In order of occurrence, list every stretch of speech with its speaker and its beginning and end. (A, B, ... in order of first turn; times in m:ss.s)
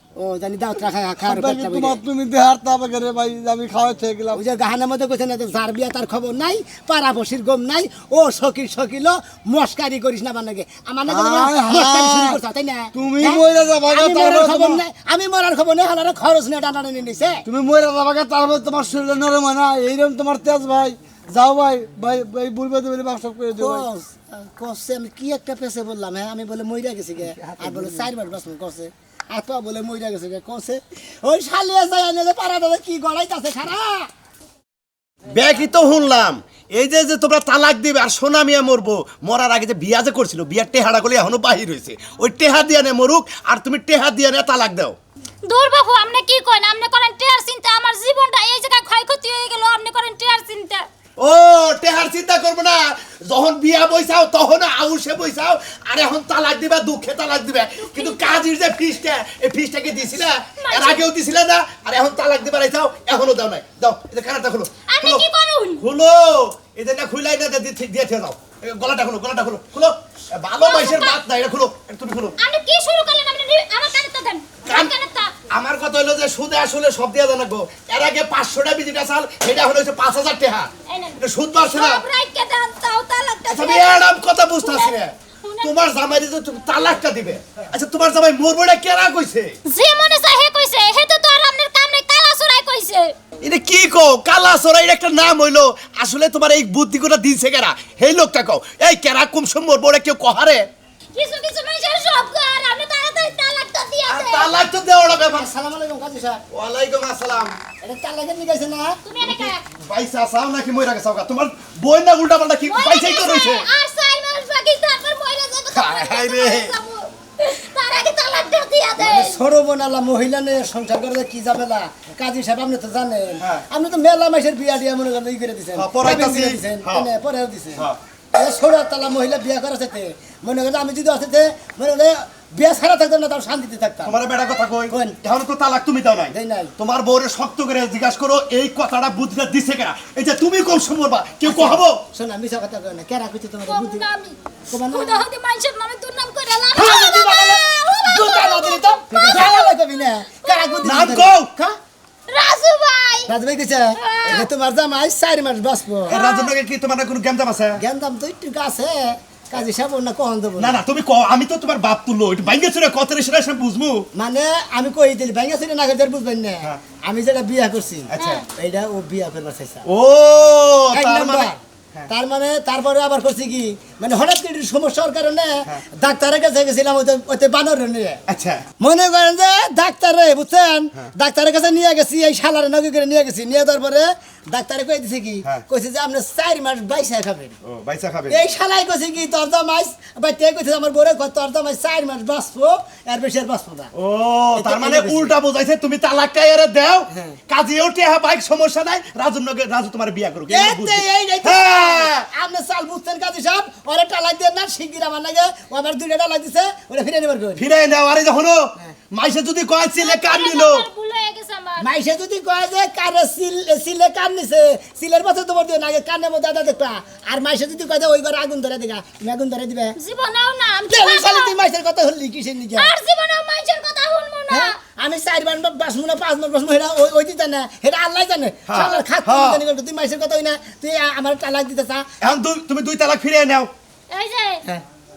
0:00.2-0:02.0 A
0:01.2-0:04.4 B
0:04.3-0:17.4 A
0:11.1-0:12.4 B
0:12.9-0:14.8 B
0:17.5-0:23.8 B
0:23.5-0:34.1 A
0:27.4-0:28.0 B
0:35.3-0:45.0 C
0:45.4-0:50.8 D
0:51.2-1:05.2 C
0:57.8-0:58.4 D
1:00.6-1:01.0 D
1:04.9-1:05.8 D
1:05.8-1:12.3 C
1:10.6-1:11.2 D
1:12.4-1:15.3 D
1:14.6-1:14.9 C
1:15.5-1:22.0 C
1:20.9-1:25.9 D
1:23.5-1:29.5 C
1:29.7-1:33.1 D
1:33.4-1:40.7 C
1:41.1-1:44.5 D
1:44.1-1:45.5 C
1:45.3-1:46.4 A
1:46.5-1:47.5 C
1:47.8-1:49.0 A
1:49.0-1:49.6 D
1:49.2-1:53.6 C
1:52.7-1:59.4 D
1:55.7-1:56.7 C
1:59.0-2:14.2 A
2:05.8-2:07.1 C
2:14.0-2:22.0 C
2:14.9-2:15.2 A
2:16.3-2:16.7 A
2:21.4-2:24.0 A
2:23.7-2:29.7 D
2:24.7-2:25.2 A
2:26.7-2:31.8 A
2:30.4-2:31.0 D
2:30.8-2:31.5 C
2:32.3-2:33.3 D
2:33.3-2:36.2 A
2:33.9-2:34.5 D
2:36.1-2:36.5 D
2:36.1-2:37.8 C
2:37.8-2:40.8 A
2:40.6-2:44.0 C
2:44.1-2:49.8 A
2:48.1-2:48.4 C
2:48.2-2:48.4 D
2:49.8-2:52.1 C
2:50.9-2:58.2 A
2:58.3-2:58.6 C
2:58.8-3:07.6 A
3:07.6-3:08.4 C
3:08.3-3:13.9 A
3:13.9-3:22.2 C
3:14.6-3:15.4 A
3:17.1-3:17.4 A
3:20.5-3:27.6 A
3:27.6-3:30.8 C
3:30.0-3:31.9 D
3:31.8-3:39.9 A
3:40.0-3:41.5 D
3:40.9-3:42.9 A
3:42.8-3:44.8 D
3:44.5-3:52.1 A
3:48.7-3:49.6 C
3:52.2-3:53.7 C
3:54.1-3:54.6 D